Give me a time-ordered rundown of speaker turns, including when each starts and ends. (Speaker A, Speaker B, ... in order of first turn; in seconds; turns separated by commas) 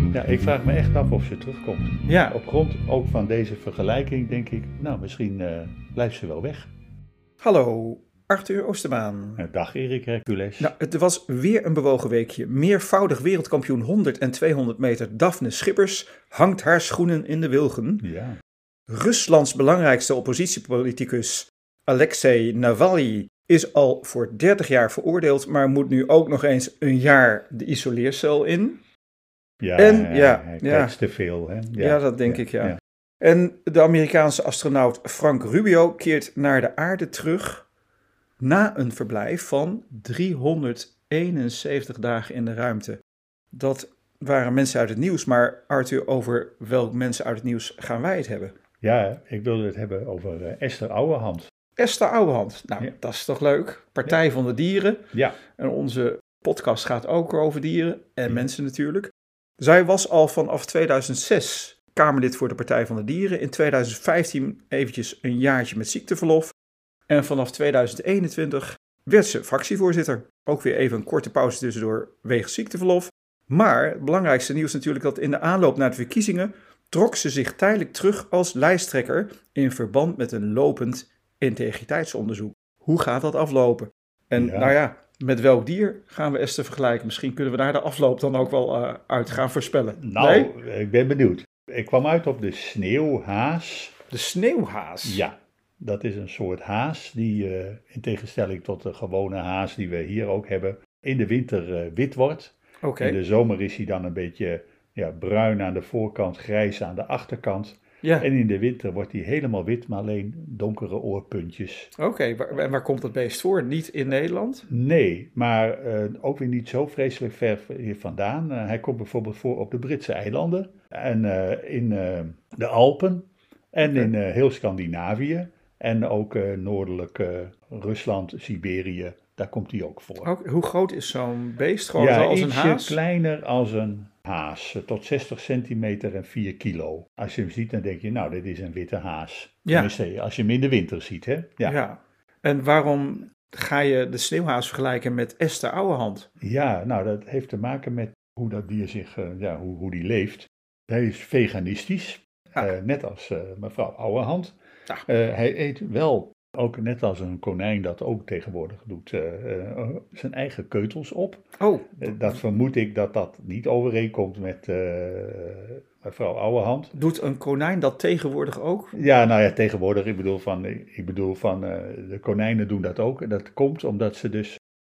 Speaker A: 0.1-6.7, Speaker B: 2.1-2.4, Speaker B: 7.4-9.4, Speaker A: 9.4-10.7, Speaker B: 10.6-18.0, Speaker A: 18.0-18.4, Speaker B: 18.9-28.8, Speaker A: 29.6-32.8, Speaker B: 29.8-30.9, Speaker B: 31.8-37.6, Speaker B: 38.4-43.0, Speaker B: 43.5-48.5, Speaker A: 48.8-51.5, Speaker B: 51.8-66.5, Speaker A: 55.1-55.4, Speaker B: 67.1-90.5, Speaker A: 84.3-84.8, Speaker A: 90.0-94.0, Speaker B: 94.1-95.2, Speaker A: 95.0-111.9, Speaker B: 102.8-103.2, Speaker B: 108.0-108.3, Speaker B: 112.0-114.7, Speaker A: 114.7-130.3, Speaker B: 123.8-124.1, Speaker B: 130.2-133.0, Speaker A: 132.0-141.8, Speaker B: 139.6-139.9, Speaker B: 141.6-146.3, Speaker A: 146.4-154.5, Speaker A: 155.1-161.4, Speaker B: 161.6-162.1, Speaker A: 162.0-166.9, Speaker B: 166.9-168.9, Speaker A: 168.9-174.6